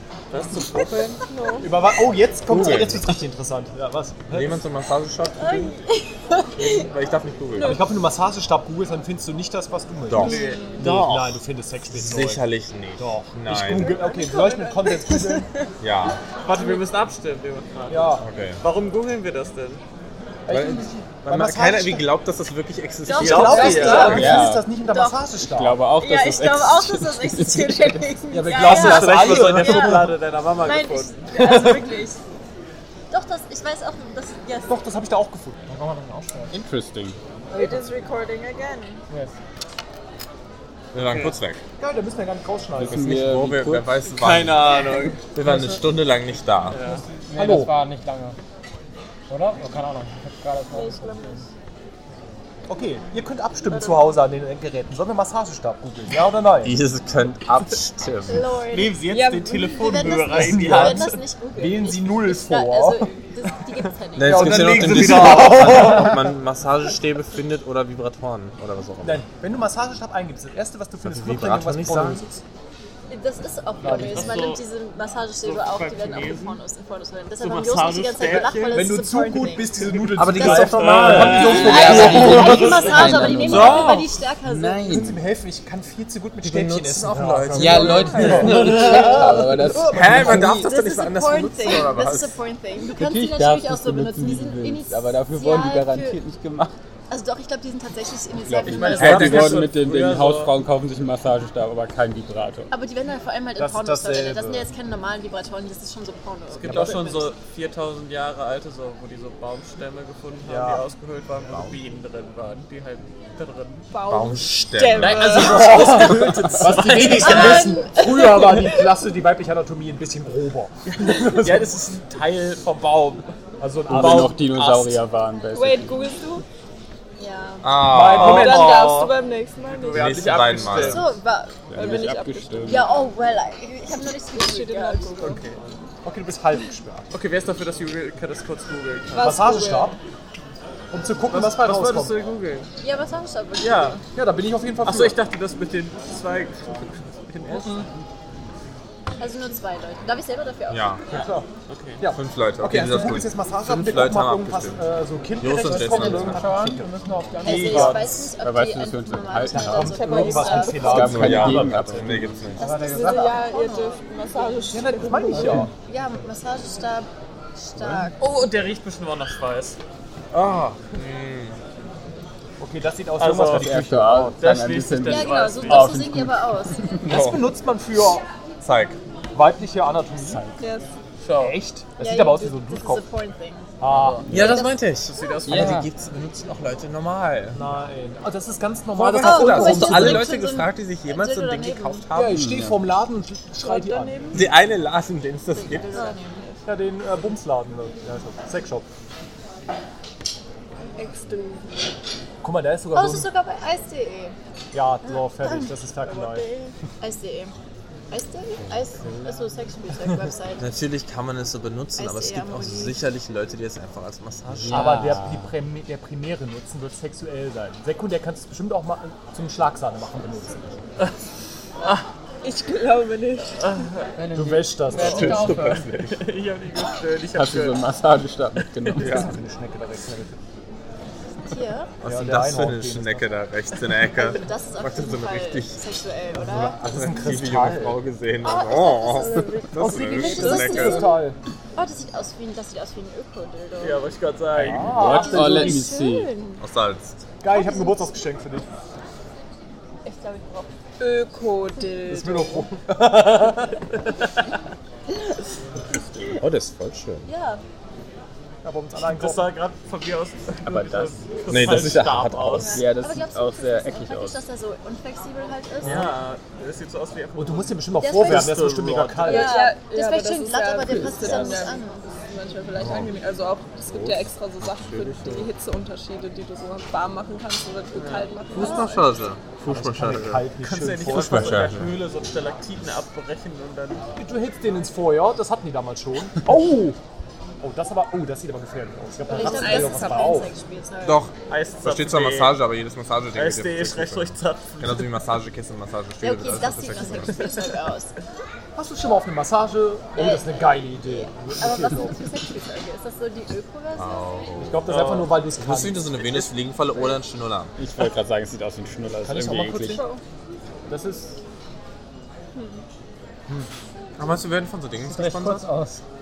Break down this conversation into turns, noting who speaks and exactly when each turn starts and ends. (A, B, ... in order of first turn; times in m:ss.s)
0:00.3-0:01.2 A
0:01.3-0:01.7 B
0:01.6-0:04.6 C
0:02.5-0:03.2 D
0:04.3-0:05.7 D
0:05.4-0:06.9 E
0:06.6-0:07.8 D
0:07.6-0:15.5 C
0:10.1-0:14.0 D
0:10.2-0:10.8 A
0:10.2-0:10.8 B
0:13.8-0:15.0 B
0:15.8-0:16.2 D
0:16.4-0:19.8 A
0:17.9-0:18.2 C
0:18.2-0:18.6 D
0:20.5-0:22.1 C
0:20.5-0:24.3 D
0:23.1-0:25.3 E
0:23.1-0:24.2 A
0:23.2-0:25.8 C
0:23.7-0:24.3 B
0:24.1-0:24.7 F
0:25.4-0:28.1 F
0:25.9-0:32.2 E
0:28.3-0:30.2 C
0:28.6-0:31.7 A
0:33.1-0:34.9 E
0:34.7-0:35.6 C
0:35.7-0:36.5 G
0:36.5-0:37.2 F
0:37.5-0:37.8 G
0:37.5-0:39.0 B
0:40.9-0:41.6 D
0:41.0-0:41.4 A
0:41.8-0:43.1 C
0:42.8-0:43.9 F
0:42.9-0:44.8 D
0:44.1-0:45.2 A
0:45.3-0:46.8 D
0:45.4-0:45.8 G
0:46.7-0:47.0 A
0:47.1-0:48.4 G
0:47.4-0:47.8 C
0:49.3-0:51.4 G
0:50.7-0:51.5 B
0:52.7-0:56.8 C
0:53.7-0:54.0 E
0:56.6-0:58.4 D
0:58.3-1:04.8 E
0:58.7-1:01.2 A
0:59.1-0:59.8 B
1:00.3-1:03.1 C
1:04.2-1:09.2 D
1:04.2-1:06.0 C
1:04.6-1:06.1 A
1:09.0-1:12.3 C
1:11.0-1:12.4 D
1:13.1-1:25.0 E
1:13.8-1:14.4 G
1:13.9-1:14.6 A
1:15.4-1:16.6 A
1:17.4-1:18.9 A
1:18.7-1:22.9 C
1:20.1-1:22.2 D
1:20.4-1:24.0 A
1:21.2-1:25.2 F
1:23.5-1:24.0 D
1:24.9-1:30.3 C
1:26.4-1:29.0 D
1:27.5-1:30.6 F
1:28.2-1:29.3 A
1:29.9-1:32.4 D
1:30.3-1:36.2 E
1:32.9-1:36.8 F
1:37.1-1:39.6 E
1:38.5-1:39.7 C
1:38.6-1:42.7 F
1:38.6-1:40.6 A
1:42.7-1:47.3 E
1:43.6-1:44.7 C
1:46.5-1:53.8 A
1:46.6-1:47.0 C
1:50.4-1:50.8 C
1:51.5-1:51.8 D
1:53.9-1:56.5 B
1:54.1-1:56.2 D
1:55.0-2:02.1 C
1:56.6-1:57.7 A
1:57.2-1:57.9 E
1:57.2-1:58.7 B
2:00.9-2:03.2 A
2:03.1-2:04.7 C
2:03.9-2:06.0 F
2:04.6-2:04.9 A
2:05.5-2:06.4 B
2:07.2-2:07.8 E
2:07.6-2:08.5 D
2:07.9-2:08.9 C
2:08.1-2:11.1 A
2:08.2-2:10.8 B
2:09.9-2:11.1 D
2:10.8-2:11.7 E
2:11.7-2:12.9 F
2:11.7-2:12.8 B
2:12.6-2:15.2 E
2:13.9-2:15.4 B
2:15.2-2:15.6 A
2:16.0-2:17.1 C
2:17.1-2:19.6 A
2:19.1-2:20.0 B
2:19.2-2:20.0 C
2:20.9-2:22.2 C
2:21.3-2:22.7 A
2:22.8-2:24.0 E
2:23.6-2:24.0 A
2:24.1-2:25.2 C
2:24.8-2:27.8 A
2:27.4-2:27.9 C
2:29.2-2:31.2 E
2:30.7-2:31.0 D
2:31.1-2:31.5 C
2:31.7-2:32.0 A
2:32.0-2:38.4 C
2:32.1-2:34.8 D
2:35.4-2:36.5 D
2:35.6-2:37.9 G
2:37.4-2:41.1 E
2:37.7-2:42.6 F
2:39.5-2:43.4 C
2:39.8-2:41.1 B
2:40.9-2:42.6 D
2:42.6-2:44.0 E
2:42.9-2:45.6 B
2:44.7-2:45.7 C
2:45.8-2:48.2 E
2:48.2-2:49.8 A
2:50.3-2:51.6 D
2:52.6-2:54.4 C
2:53.2-2:53.8 A
2:53.4-2:57.0 F
2:54.4-2:56.0 A
2:55.1-2:56.9 E
2:57.0-2:58.2 C
2:57.0-2:57.5 D
2:58.6-2:59.0 D
2:59.3-3:00.4 C
3:00.2-3:00.6 F
3:00.6-3:00.9 B
3:01.2-3:01.6 A
3:01.4-3:03.0 C
3:02.0-3:03.7 E
3:03.8-3:04.3 C
3:03.8-3:04.4 F
3:04.3-3:05.4 E
3:04.3-3:07.6 D
3:05.1-3:05.8 A
3:05.5-3:05.9 G
3:05.5-3:05.8 F
3:07.5-3:10.3 C
3:09.0-3:12.4 D
3:09.2-3:12.1 E
3:12.1-3:14.5 C
3:12.3-3:12.8 F
3:13.6-3:14.6 B
3:14.3-3:16.0 D
3:15.5-3:16.6 E
3:15.9-3:16.6 B
3:16.6-3:18.9 C
3:21.0-3:21.8 B
3:22.4-3:23.3 C
3:22.9-3:24.4 E
3:24.7-3:26.5 C
3:25.1-3:27.6 E
3:26.1-3:26.7 B
3:28.1-3:30.7 E
3:30.6-3:35.0 D
3:32.0-3:33.0 E
3:34.6-3:35.4 F
3:34.7-3:40.8 C
3:42.4-3:43.8 B
3:43.6-3:44.1 A
3:44.2-3:45.9 G
3:44.3-3:45.5 C
3:44.9-3:46.2 D
3:45.3-3:47.9 A
3:47.3-3:49.3 F
3:49.0-3:49.3 D
3:49.0-3:50.4 C
3:51.4-3:51.9 E
3:52.0-3:55.8 D
3:52.0-3:53.3 C
3:54.1-3:56.8 E
3:56.4-4:01.2 D
3:56.5-3:58.0 C
3:58.4-4:04.1 E
3:59.8-4:01.4 C
4:03.8-4:05.1 A
4:04.6-4:06.4 F
4:04.6-4:05.8 C
4:05.0-4:06.2 E
4:05.0-4:06.6 B
4:06.6-4:07.2 D
4:07.4-4:08.7 C
4:07.5-4:08.2 E
4:10.0-4:10.7 E
4:11.0-4:12.7 B
4:12.1-4:13.7 C
4:13.2-4:13.6 A
4:16.3-4:17.3 D
4:17.2-4:17.6 E
4:18.6-4:19.5 C
4:19.0-4:22.8 A
4:20.6-4:21.2 F
4:21.5-4:22.8 D
4:22.6-4:24.4 F
4:22.8-4:26.1 E
4:25.8-4:29.5 A
4:27.4-4:29.6 C
4:28.0-4:28.6 E
4:29.2-4:32.0 E
4:29.2-4:39.1 B
4:32.8-4:33.1 D
4:33.9-4:35.5 D
4:38.0-4:38.3 A
4:38.5-4:40.5 D
4:39.6-4:41.6 C
4:40.6-4:44.0 A
4:41.1-4:42.0 D
4:44.2-4:47.0 C
4:47.6-4:50.5 C
4:49.3-4:51.2 E
4:49.3-4:50.5 B
4:51.0-4:57.5 D
4:51.5-4:52.6 A
4:53.3-4:55.1 A
4:56.2-4:58.1 E
4:58.8-5:02.2 C
5:00.2-5:04.5 E
5:04.0-5:05.0 D
5:04.6-5:06.5 C
5:04.9-5:05.4 A
5:05.6-5:07.7 D
5:07.8-5:10.0 F
5:09.2-5:10.0 C
5:09.9-5:10.2 B
5:10.9-5:11.4 C
5:12.5-5:12.8 B
5:14.2-5:15.7 D
5:15.1-5:16.0 G